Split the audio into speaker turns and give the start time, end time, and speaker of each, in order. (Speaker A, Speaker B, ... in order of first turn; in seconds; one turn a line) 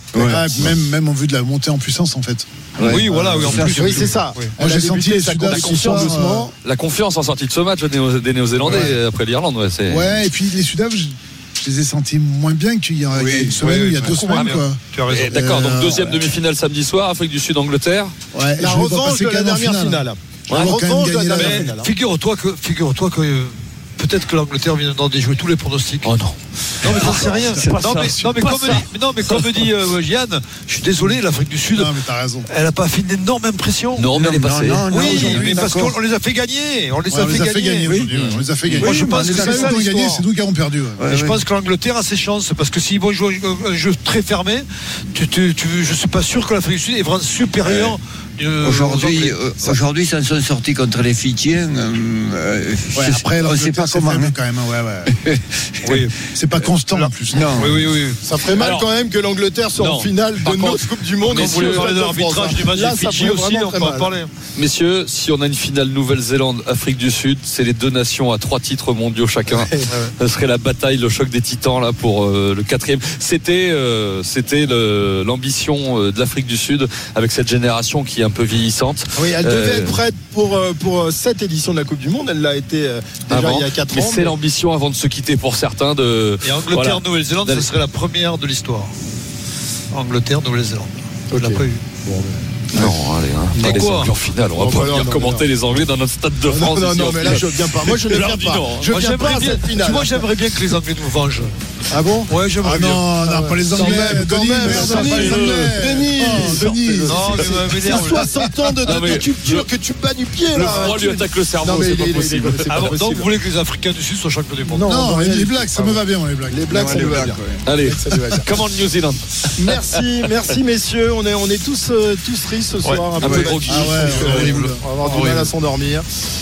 Speaker A: 0.1-0.5
Speaker B: 0.1-6.5
Speaker C: 0.2-0.7
Speaker A: 2.8-6.5
Speaker D: 2.9-4.5
Speaker E: 5.4-10.2
Speaker B: 9.9-16.3
Speaker C: 13.1-13.6
Speaker D: 13.6-15.3
Speaker E: 14.1-18.1
Speaker B: 18.3-21.7
Speaker A: 18.6-21.9
Speaker D: 21.3-26.1
Speaker E: 26.0-29.7
Speaker D: 26.8-34.1
Speaker B: 27.0-27.6
Speaker B: 31.7-32.5
Speaker E: 34.0-35.1
Speaker C: 34.1-35.9
Speaker D: 34.9-38.1
Speaker B: 34.9-35.7
Speaker B: 37.1-41.2
Speaker E: 38.1-39.0
Speaker D: 38.6-40.2
Speaker A: 39.0-39.8
Speaker C: 41.0-41.3
Speaker D: 41.1-49.8
Speaker C: 48.6-54.4
Speaker B: 52.9-55.2
Speaker C: 55.0-56.0
Speaker D: 55.8-58.2
Speaker B: 56.3-57.9
Speaker C: 57.3-57.8
Speaker A: 58.2-64.1
Speaker E: 58.5-58.9
Speaker E: 59.8-62.1
Speaker D: 61.2-64.3
Speaker E: 64.5-80.0
Speaker A: 69.5-69.9
Speaker D: 69.9-70.1
Speaker A: 79.2-84.3
Speaker E: 83.3-87.7
Speaker D: 86.4-88.9
Speaker D: 89.9-91.9
Speaker A: 91.3-92.5
Speaker E: 92.7-99.0
Speaker A: 93.6-95.5
Speaker D: 93.6-94.1
Speaker A: 96.5-100.2
Speaker D: 98.8-101.5
Speaker A: 101.9-102.3
Speaker D: 102.3-103.1
Speaker B: 102.6-108.4
Speaker A: 103.2-113.3
Speaker D: 103.7-104.1
Speaker E: 103.8-107.7
Speaker D: 104.7-105.2
Speaker D: 107.0-108.5
Speaker E: 108.8-109.7
Speaker D: 110.5-111.0
Speaker E: 110.5-113.0
Speaker D: 112.7-114.9
Speaker A: 114.7-118.5
Speaker B: 114.8-117.4
Speaker C: 116.7-117.7
Speaker E: 117.7-120.0
Speaker A: 119.6-126.0
Speaker D: 122.8-123.6
Speaker E: 123.2-125.5
Speaker B: 123.7-124.8